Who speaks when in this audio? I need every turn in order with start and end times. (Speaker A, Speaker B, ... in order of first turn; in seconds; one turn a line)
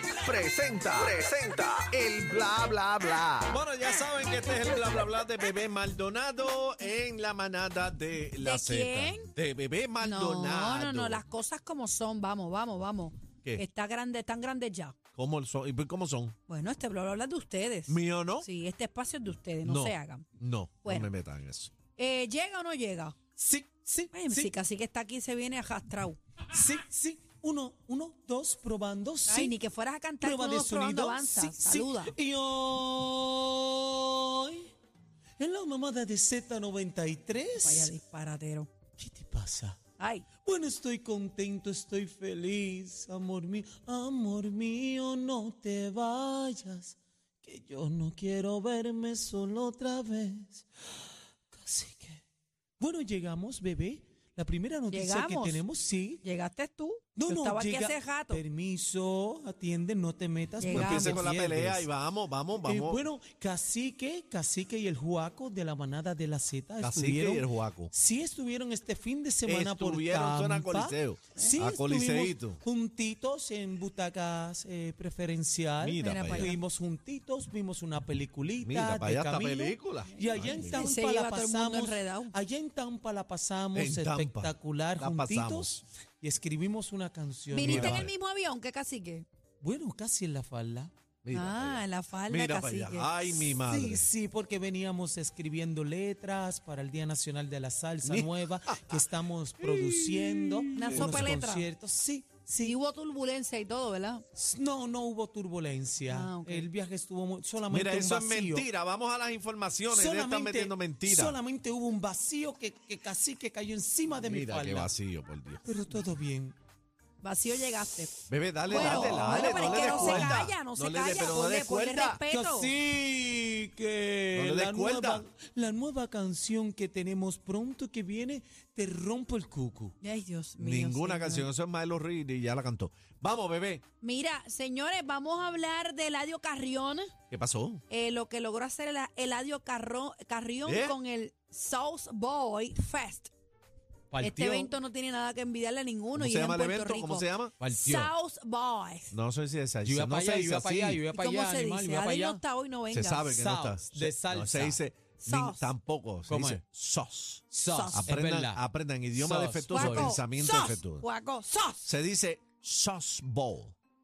Speaker A: 0.2-3.5
Speaker B: 0.9-1.2
Speaker B: 3.4-11.2
Speaker C: 8.4-9.3
Speaker C: 10.0-14.9
Speaker B: 15.2-16.4
Speaker C: 16.5-20.2
Speaker B: 17.9-18.5
Speaker B: 19.6-21.7
Speaker C: 20.8-21.1
Speaker C: 22.0-23.2
Speaker D: 23.4-24.5
Speaker C: 24.1-26.2
Speaker D: 26.5-29.5
Speaker C: 29.3-32.1
Speaker D: 30.2-34.7
Speaker D: 35.4-37.9
Speaker C: 37.6-38.7
Speaker D: 39.0-39.8
Speaker C: 40.0-40.3
Speaker D: 40.4-52.2
Speaker D: 52.8-56.2
Speaker C: 54.9-55.6
Speaker C: 56.2-58.4
Speaker D: 57.2-61.9
Speaker C: 60.6-61.3
Speaker B: 60.7-63.1
Speaker D: 62.6-88.1
Speaker B: 66.8-67.9
Speaker B: 69.5-72.6
Speaker B: 75.8-76.5
Speaker C: 76.0-76.6
Speaker B: 78.6-80.8
Speaker C: 80.2-82.3
Speaker B: 83.7-85.8
Speaker C: 87.5-89.3
Speaker B: 87.6-88.1
Speaker D: 89.6-90.9
Speaker B: 91.2-94.1
Speaker C: 91.3-93.4
Speaker D: 93.7-102.8
Speaker B: 98.0-99.1
Speaker B: 99.6-101.4
Speaker C: 100.8-101.7
Speaker C: 102.6-104.2
Speaker D: 104.3-108.7
Speaker C: 106.1-106.7
Speaker B: 107.7-111.4
Speaker D: 109.9-114.9
Speaker B: 114.2-115.6
Speaker D: 115.7-116.6
Speaker C: 117.2-118.2
Speaker B: 118.3-122.2
Speaker C: 118.7-122.7
Speaker D: 118.7-120.5
Speaker D: 122.3-130.0
Speaker B: 124.3-125.2
Speaker C: 130.0-131.5
Speaker B: 130.6-133.8
Speaker C: 134.0-137.1
Speaker B: 137.3-137.8
Speaker C: 137.9-143.3
Speaker B: 140.7-141.0
Speaker D: 144.1-144.7
Speaker C: 144.2-149.2
Speaker B: 146.2-147.5
Speaker D: 147.6-148.1
Speaker B: 149.1-151.0
Speaker D: 149.8-152.4
Speaker C: 151.1-153.4
Speaker B: 152.9-161.0
Speaker D: 153.3-154.8
Speaker C: 155.2-155.7
Speaker D: 156.3-156.6
Speaker D: 157.5-158.6
Speaker C: 157.6-158.1
Speaker D: 159.2-160.2
Speaker C: 159.7-161.9
Speaker B: 161.8-163.8